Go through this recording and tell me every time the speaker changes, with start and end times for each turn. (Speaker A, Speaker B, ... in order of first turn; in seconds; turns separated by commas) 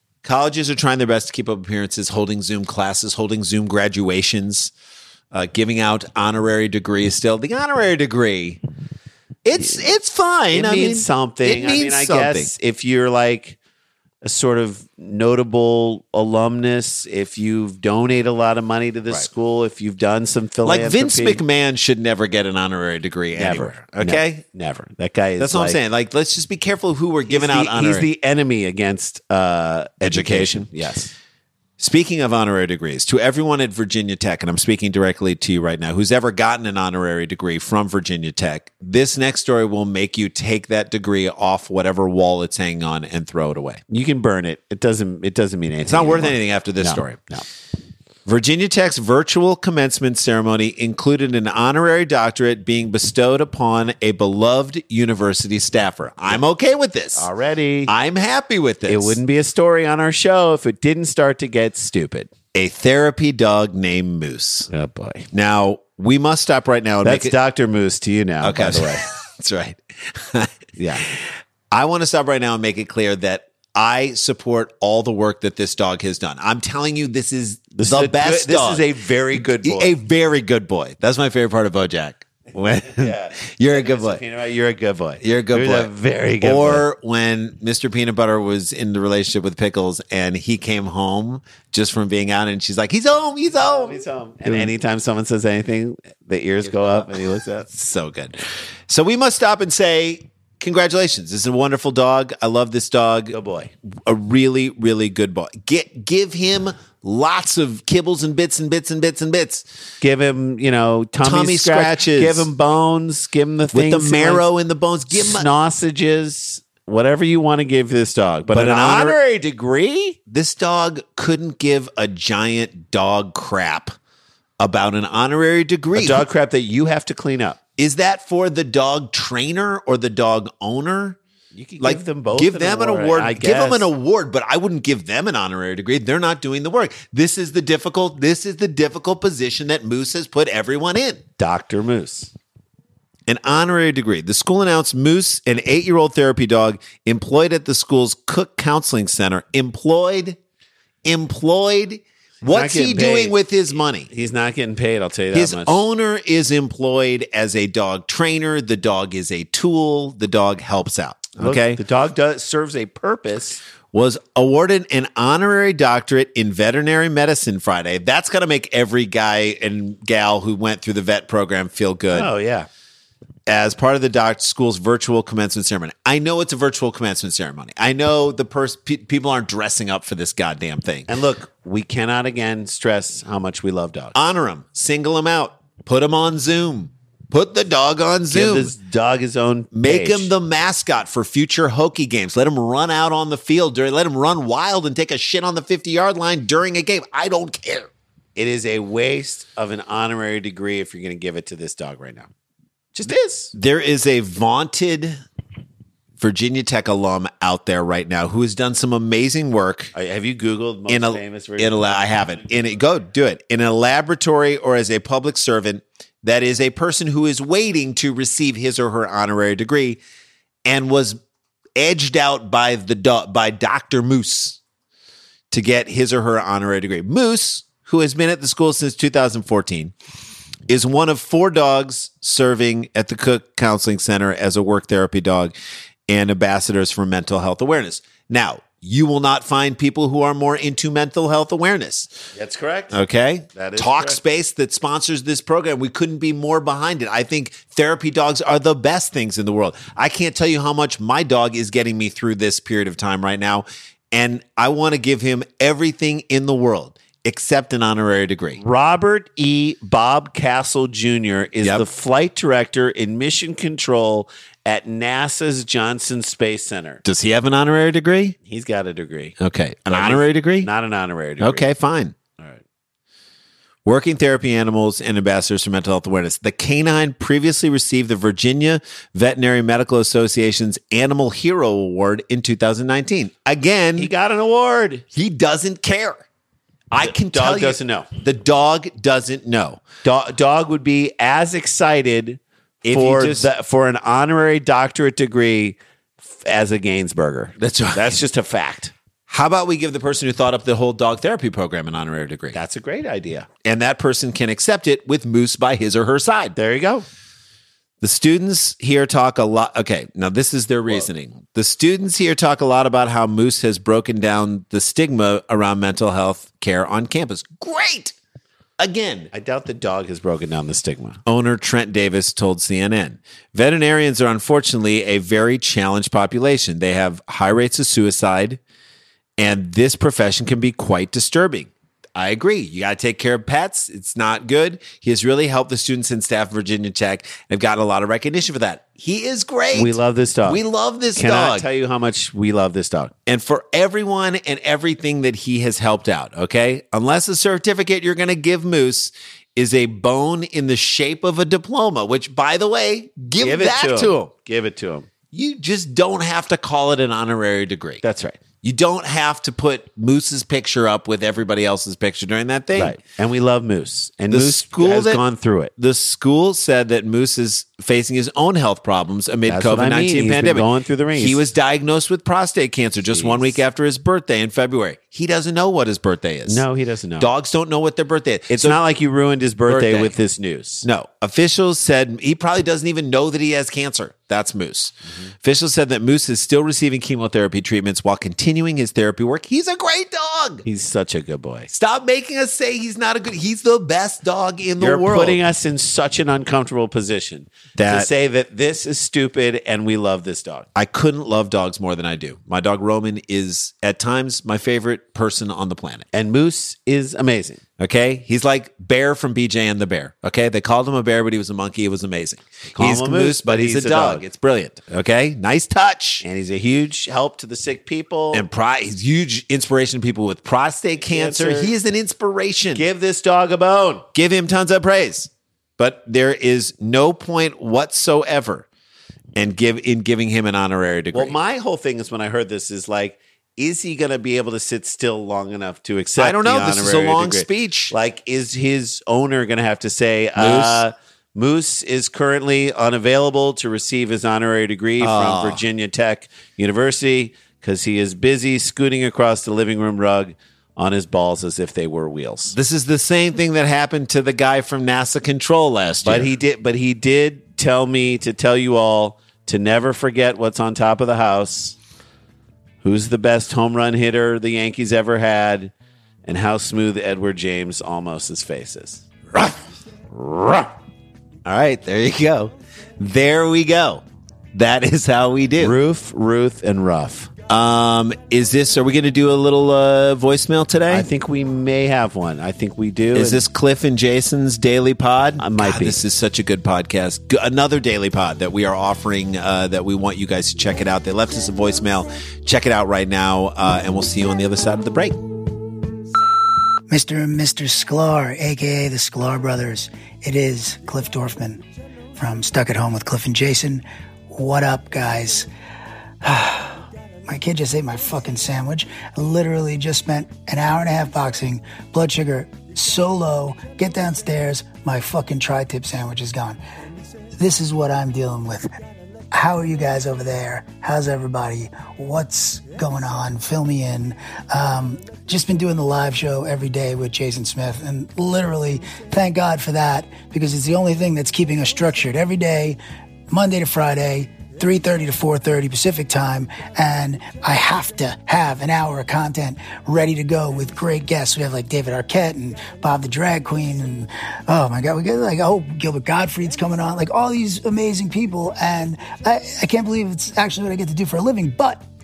Speaker A: 0.2-4.7, Speaker A: 5.3-8.6, Speaker A: 9.4-12.5, Speaker B: 10.5-13.6, Speaker B: 14.2-21.4, Speaker A: 20.6-24.4, Speaker B: 23.4-25.8, Speaker A: 25.4-28.1, Speaker B: 27.3-31.1, Speaker A: 30.0-30.7, Speaker A: 31.8-43.8, Speaker B: 43.9-47.4, Speaker A: 45.8-47.2, Speaker A: 48.2-57.3, Speaker B: 57.1-57.9, Speaker A: 57.9-59.2, Speaker B: 58.9-62.3, Speaker A: 62.5-64.7, Speaker B: 64.7-65.3, Speaker A: 65.3-67.3, Speaker B: 67.0-69.0, Speaker A: 68.4-78.8, Speaker B: 70.8-71.1, Speaker B: 77.7-79.9, Speaker A: 79.6-84.2, Speaker B: 82.8-86.8, Speaker A: 85.2-94.7, Speaker B: 93.5-97.7, Speaker A: 96.8-97.1, Speaker A: 97.7-103.4, Speaker B: 103.3-103.7, Speaker A: 104.0-109.6, Speaker B: 110.0-114.4, Speaker A: 111.2-112.5, Speaker A: 113.7-115.5, Speaker B: 115.1-120.2, Speaker A: 118.5-119.2, Speaker A: 120.3-123.9, Speaker A: 124.6-126.2, Speaker B: 125.9-127.6, Speaker A: 127.8-131.2, Speaker B: 131.5-133.9, Speaker A: 131.8-141.2, Speaker B: 141.4-142.3, Speaker A: 143.3-150.4, Speaker A: 151.0-154.1, Speaker B: 152.4-153.3, Speaker B: 154.1-155.8, Speaker A: 155.3-161.8, Speaker B: 161.4-163.6, Speaker A: 163.9-172.3, Speaker B: 172.1-172.7, Speaker A: 173.5-181.1, Speaker B: 181.1-184.1, Speaker A: 184.1-188.7, Speaker B: 188.3-190.3, Speaker A: 189.7-197.9, Speaker B: 198.3-202.3, Speaker B: 202.9-203.5, Speaker A: 203.5-205.2, Speaker A: 206.2-209.9, Speaker B: 209.9-212.2, Speaker A: 210.9-220.0, Speaker A: 220.6-221.2, Speaker A: 221.8-224.6, Speaker A: 225.5-229.9, Speaker A: 230.7-235.5, Speaker A: 236.1-242.1, Speaker B: 242.3-243.0, Speaker A: 242.9-258.6, Speaker B: 243.5-244.2, Speaker B: 258.6-267.0, Speaker A: 267.0-268.4, Speaker B: 268.4-269.4, Speaker A: 269.4-270.7, Speaker B: 269.9-271.7, Speaker A: 271.4-272.2, Speaker A: 273.8-284.1, Speaker B: 284.0-285.0, Speaker A: 285.1-286.2, Speaker A: 286.9-289.8, Speaker B: 287.0-288.1, Speaker B: 290.0-298.9, Speaker A: 292.8-293.5, Speaker A: 297.6-298.2, Speaker A: 299.3-302.6, Speaker B: 302.5-303.5, Speaker A: 303.6-306.6, Speaker B: 306.6-307.1, Speaker A: 308.0-318.1, Speaker A: 318.8-319.3, Speaker B: 319.3-321.2, Speaker A: 321.2-328.6, Speaker A: 329.4-341.6, Speaker B: 339.7-340.6, Speaker B: 341.1-343.1, Speaker A: 343.3-354.3, Speaker B: 353.4-355.1, Speaker A: 355.3-358.0, Speaker B: 358.0-358.4, Speaker A: 358.6-363.0, Speaker B: 362.7-365.7, Speaker A: 364.3-365.2, Speaker A: 365.8-376.6, Speaker B: 369.5-371.4, Speaker B: 373.1-373.6, Speaker B: 376.5-377.3, Speaker A: 377.2-378.8, Speaker B: 378.5-380.9, Speaker A: 379.7-380.1, Speaker A: 380.8-390.6, Speaker B: 390.6-391.7, Speaker A: 391.7-395.4, Speaker B: 394.8-400.6, Speaker A: 397.8-398.1, Speaker A: 400.7-406.1, Speaker B: 406.1-407.6, Speaker A: 407.8-416.2, Speaker B: 412.7-414.2, Speaker B: 416.2-418.4, Speaker A: 418.3-422.8, Speaker B: 421.0-421.7, Speaker B: 422.7-424.1, Speaker A: 424.1-428.6, Speaker A: 429.3-431.4, Speaker B: 431.1-452.5, Speaker A: 436.2-437.9, Speaker A: 440.4-440.8, Speaker A: 445.0-445.6, Speaker A: 452.5-456.3, Speaker B: 456.0-461.8, Speaker B: 462.8-465.7, Speaker B: 466.2-469.0, Speaker A: 469.3-469.6, Speaker B: 470.2-470.7, Speaker A: 471.4-475.8, Speaker B: 475.6-477.3, Speaker A: 477.5-481.1, Speaker B: 480.9-483.4, Speaker A: 483.1-495.2, Speaker B: 485.4-486.0, Speaker C: 496.9-501.6, Speaker C: 502.1-505.5, Speaker C: 506.2-516.6, Speaker C: 517.4-518.7, Speaker C: 519.3-532.8, Speaker C: 533.3-551.8